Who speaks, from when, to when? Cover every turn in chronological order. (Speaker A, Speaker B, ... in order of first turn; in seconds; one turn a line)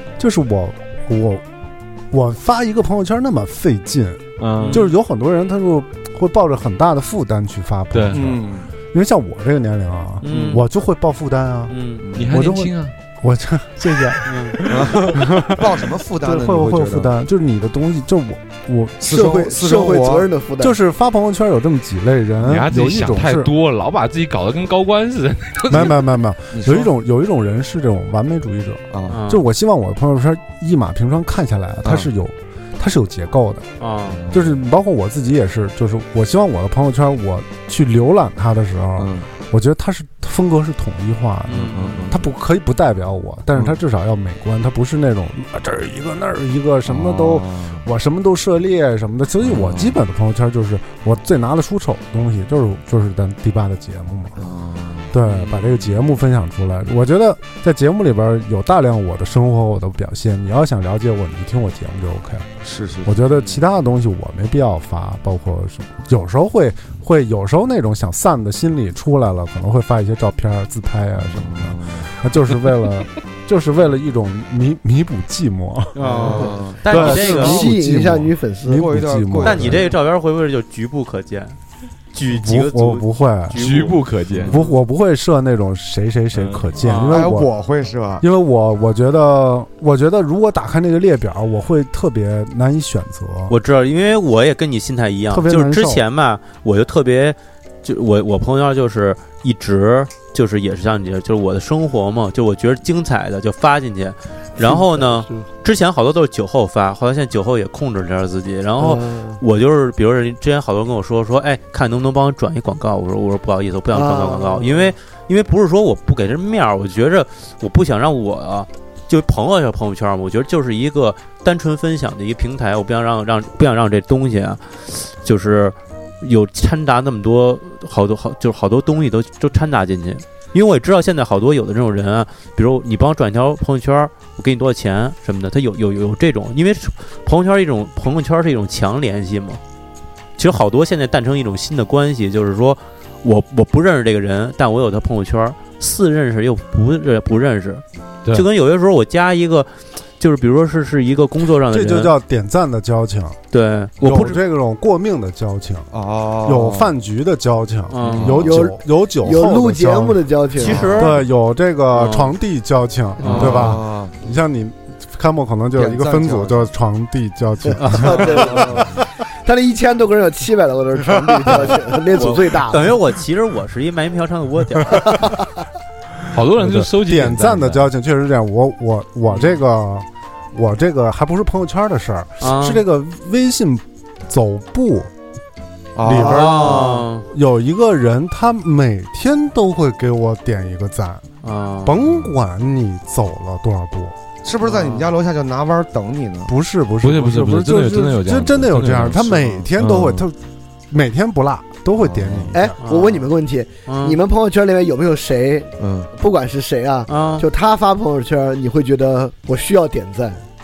Speaker A: 0.2-1.4
Speaker A: 2.1-19.3
Speaker B: 4.4-4.8
Speaker C: 4.6-4.8
Speaker B: 7.9-8.2
Speaker D: 8.1-8.7
Speaker C: 10.2-10.6
Speaker D: 10.2-10.6
Speaker C: 11.7-12.0
Speaker D: 12.0-12.3
Speaker B: 12.1-12.9
Speaker C: 14.3-14.6
Speaker D: 14.7-17.1
Speaker D: 19.0-20.3
Speaker E: 19.1-20.8
Speaker A: 20.6-23.5
Speaker B: 22.4-26.0
Speaker A: 25.7-33.7
Speaker D: 26.5-26.9
Speaker D: 28.9-29.2
Speaker C: 29.1-29.4
Speaker D: 31.8-32.1
Speaker C: 33.8-34.2
Speaker D: 34.1-34.6
Speaker A: 34.3-54.5
Speaker D: 39.0-39.3
Speaker C: 41.5-42.1
Speaker D: 41.7-42.2
Speaker D: 46.9-47.9
Speaker D: 49.4-50.0
Speaker D: 54.4-55.1
Speaker A: 55.1-62.5
Speaker D: 62.6-63.2
Speaker A: 63.0-76.0
Speaker D: 71.3-72.1
Speaker C: 76.0-77.6
Speaker D: 76.0-77.3
Speaker E: 76.3-78.9
Speaker A: 76.9-79.9
Speaker D: 78.7-80.0
Speaker C: 79.4-81.6
Speaker C: 82.1-84.8
Speaker A: 82.3-83.6
Speaker B: 83.5-84.5
Speaker A: 84.5-87.5
Speaker B: 86.3-86.7
Speaker C: 86.8-87.2
Speaker D: 87.1-88.2
Speaker A: 88.2-93.6
Speaker C: 93.5-139.6
Speaker A: 95.3-96.0
Speaker E: 104.6-105.5
Speaker E: 108.8-109.4
Speaker E: 113.9-114.9
Speaker C: 140.4-152.2
Speaker A: 151.7-153.4
Speaker C: 153.5-154.4
Speaker A: 154.0-155.9
Speaker D: 155.9-156.9
Speaker A: 156.4-160.2
Speaker C: 157.9-158.3
Speaker D: 158.1-158.5
Speaker E: 158.4-160.9
Speaker C: 160.6-161.2
Speaker D: 160.7-161.1
Speaker A: 160.9-168.8
Speaker C: 161.9-162.3
Speaker C: 163.2-163.8
Speaker D: 163.2-164.2
Speaker D: 165.8-166.7
Speaker E: 167.7-173.0
Speaker D: 168.4-168.9
Speaker C: 172.1-175.3
Speaker E: 175.1-175.4
Speaker B: 176.3-177.9
Speaker A: 176.6-185.1
Speaker C: 182.4-182.8
Speaker D: 185.9-187.0
Speaker A: 186.0-191.2
Speaker C: 186.1-187.3
Speaker C: 191.4-192.0
Speaker A: 191.8-194.2
Speaker D: 194.4-196.5
Speaker C: 194.6-195.1
Speaker A: 196.5-200.4
Speaker B: 197.0-200.2
Speaker A: 200.9-202.8
Speaker D: 202.0-202.6
Speaker E: 202.5-210.4
Speaker C: 202.8-203.3
Speaker C: 203.9-204.2
Speaker D: 205.8-206.1
Speaker C: 207.1-207.5